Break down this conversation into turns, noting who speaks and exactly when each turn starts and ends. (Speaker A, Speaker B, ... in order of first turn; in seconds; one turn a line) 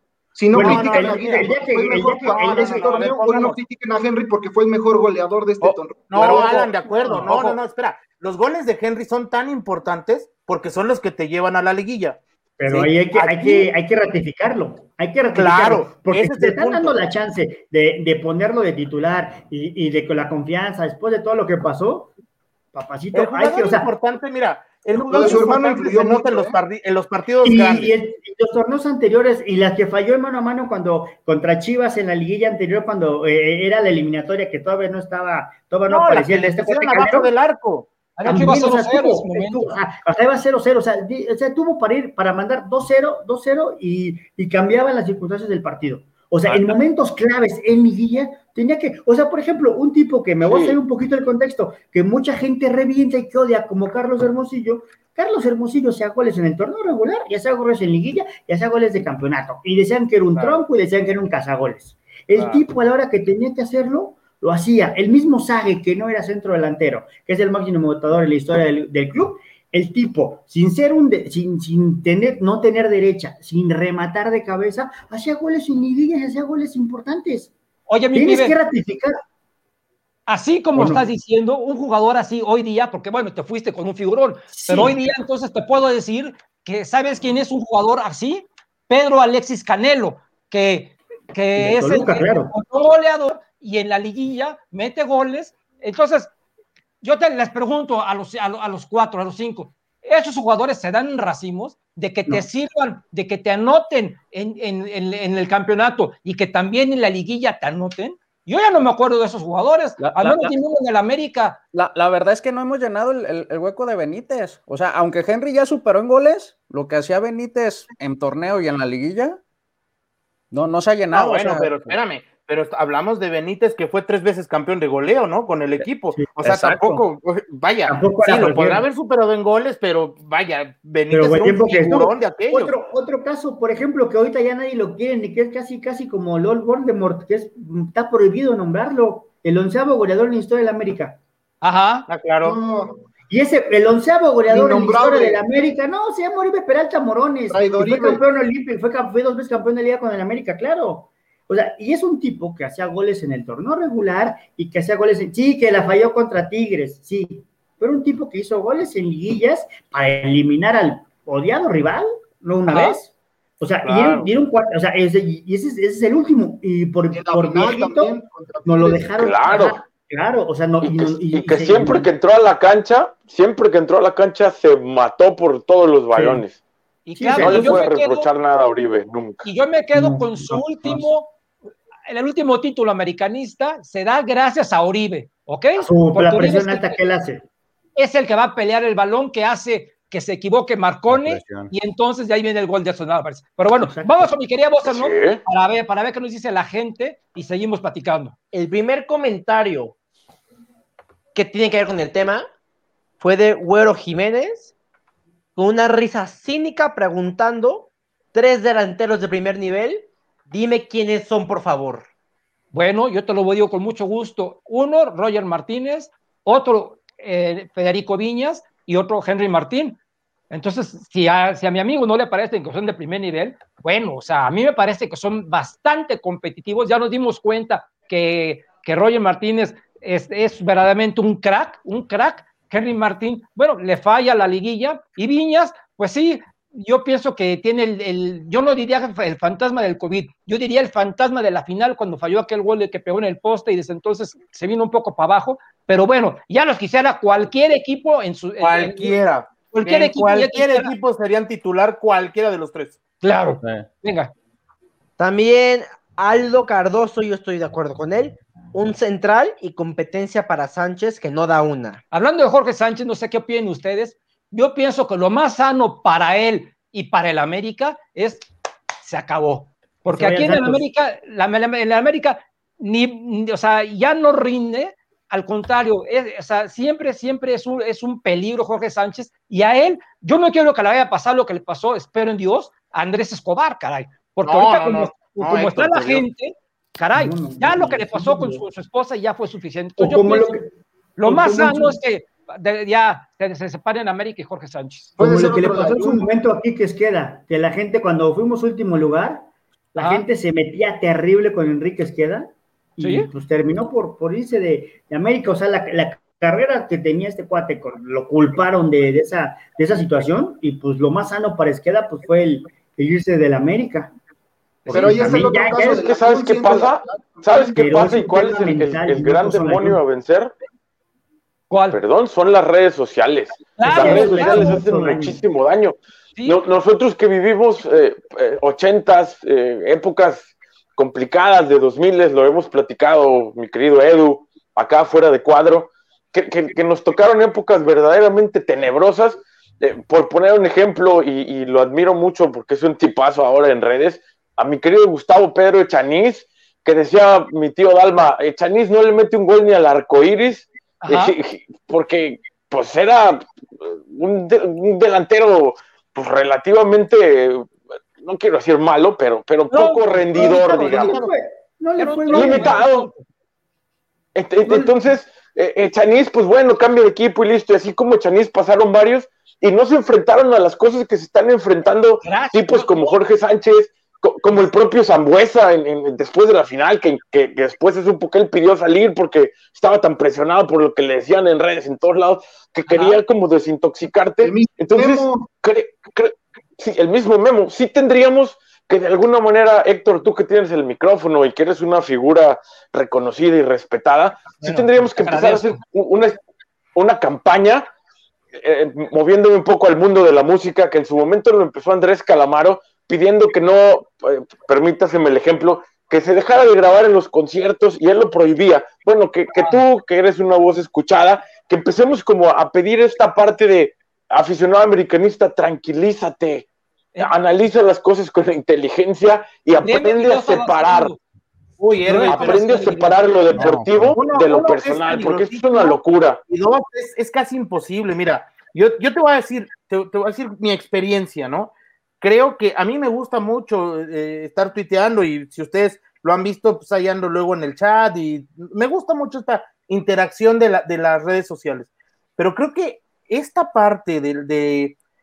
Speaker A: 0.4-6.8
Speaker B: 0.5-1.6
Speaker C: 0.5-3.2
Speaker B: 2.2-3.6
Speaker B: 6.1-13.7
Speaker C: 6.2-7.6
Speaker C: 12.6-22.1
Speaker B: 15.3-17.0
Speaker C: 22.7-23.9
Speaker B: 23.1-27.9
Speaker C: 25.0-25.6
Speaker A: 25.1-26.6
Speaker C: 27.4-37.3
Speaker B: 35.9-38.6
Speaker D: 38.2-39.8
Speaker C: 38.2-77.5
Speaker B: 46.5-46.7
Speaker B: 60.4-60.6
Speaker B: 62.3-62.6
Speaker D: 77.9-78.6
Speaker C: 78.1-79.2
Speaker D: 80.3-96.3
Speaker C: 80.8-81.0
Speaker C: 84.5-85.0
Speaker C: 91.6-92.5
Speaker D: 97.0-111.6
Speaker E: 110.0-110.6
Speaker E: 111.7-119.4
Speaker E: 120.5-122.0
Speaker B: 121.1-132.8
Speaker E: 126.4-127.0
Speaker C: 127.9-128.9
Speaker C: 131.1-141.2
Speaker D: 141.6-142.1
Speaker B: 142.1-142.6
Speaker A: 142.4-143.1
Speaker C: 143.3-168.1
Speaker A: 144.5-145.4
Speaker A: 147.5-148.2
Speaker D: 162.7-163.0
Speaker B: 163.8-164.3
Speaker A: 167.1-169.2
Speaker C: 168.7-172.1
Speaker F: 169.2-169.8
Speaker F: 170.8-176.6
Speaker C: 176.1-176.4
Speaker D: 177.1-178.3
Speaker C: 177.2-177.8
Speaker F: 177.4-179.5
Speaker D: 179.4-181.3
Speaker C: 179.9-181.1
Speaker D: 182.1-187.0
Speaker C: 185.8-187.5
Speaker D: 188.0-198.4
Speaker E: 191.1-191.7
Speaker C: 193.8-194.3
Speaker F: 194.8-195.4
Speaker G: 198.5-199.9
Speaker G: 201.3-202.5
Speaker G: 203.2-204.7
Speaker G: 205.6-212.1
Speaker D: 212.7-220.0
Speaker D: 220.5-249.2
Speaker B: 248.6-253.0
Speaker D: 249.7-251.0
Speaker D: 253.2-254.3
Speaker E: 253.6-253.9
Speaker G: 255.2-262.0
Speaker D: 262.1-268.4
Speaker D: 269.0-290.6
Speaker C: 270.1-270.8
Speaker B: 284.4-286.3
Speaker C: 287.1-288.6
Speaker C: 290.0-290.7
Speaker D: 291.2-295.1
Speaker C: 291.2-292.0
Speaker A: 295.2-296.3
Speaker C: 295.2-314.1
Speaker D: 300.0-300.2
Speaker D: 303.0-303.3
Speaker C: 314.9-316.1
Speaker A: 314.9-318.0
Speaker F: 315.9-320.5
Speaker C: 317.8-320.0
Speaker D: 321.7-322.0
Speaker F: 321.9-361.2
Speaker D: 323.8-324.8
Speaker C: 323.9-325.4
Speaker D: 351.0-351.4
Speaker D: 359.7-360.5
Speaker C: 360.4-362.8
Speaker B: 360.7-361.3
Speaker D: 362.0-363.2
Speaker F: 362.3-363.1
Speaker F: 364.4-396.4
Speaker C: 364.7-364.9
Speaker D: 372.2-373.1
Speaker D: 382.9-383.2
Speaker A: 384.4-385.5
Speaker D: 394.6-395.8
Speaker F: 396.9-397.9
Speaker F: 398.5-416.7
Speaker D: 409.5-409.8
Speaker F: 417.2-421.1
Speaker D: 419.8-421.2
Speaker B: 421.8-422.9
Speaker D: 422.1-423.2
Speaker F: 422.2-426.4
Speaker E: 423.6-424.2
Speaker B: 424.1-445.0